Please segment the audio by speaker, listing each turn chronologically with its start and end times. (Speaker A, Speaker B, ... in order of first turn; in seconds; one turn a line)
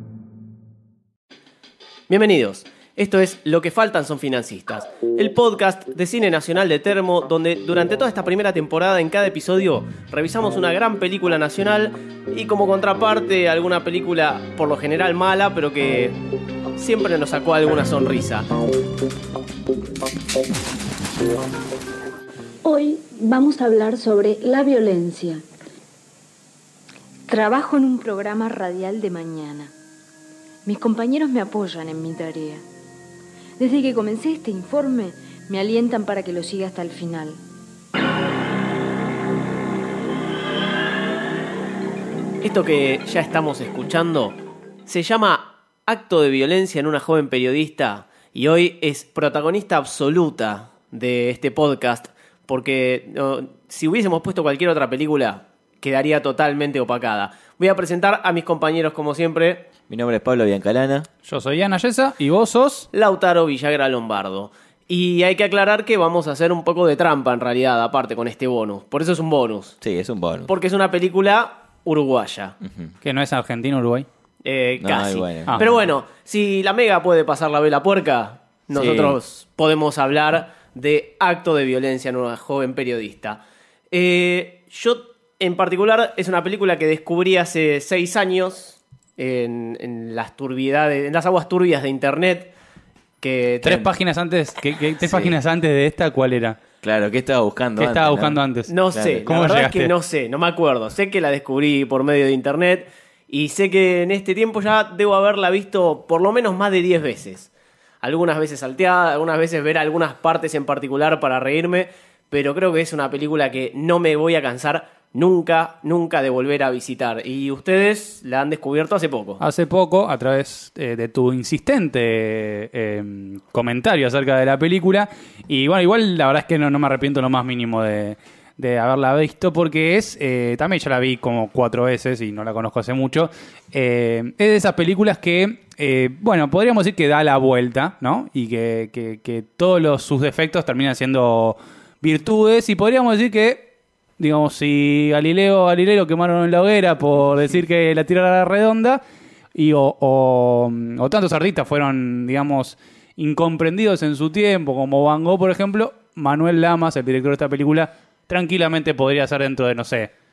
Speaker A: 2.1-16.2
Speaker A: 16.8-18.5
Speaker B: 22.7-25.4
Speaker B: 27.3-29.7
Speaker B: 30.6-32.6
Speaker B: 33.6-37.4
Speaker A: 42.4-59.7
Speaker C: 59.9-61.1
Speaker D: 61.3-62.9
Speaker A: 62.9-69.8
Speaker C: 69.8-70.5
Speaker A: 70.5-72.6
Speaker C: 72.6-72.9
Speaker D: 73.0-74.1
Speaker A: 74.4-92.5
Speaker C: 74.8-75.8
Speaker C: 78.7-79.2
Speaker A: 93.2-93.9
Speaker D: 93.6-96.6
Speaker C: 95.0-95.4
Speaker C: 96.8-98.4
Speaker D: 97.8-98.7
Speaker A: 98.7-107.5
Speaker C: 98.9-99.2
Speaker D: 99.3-99.9
Speaker A: 108.0-119.4
Speaker D: 119.4-143.7
Speaker D: 144.2-149.0
Speaker D: 149.6-160.1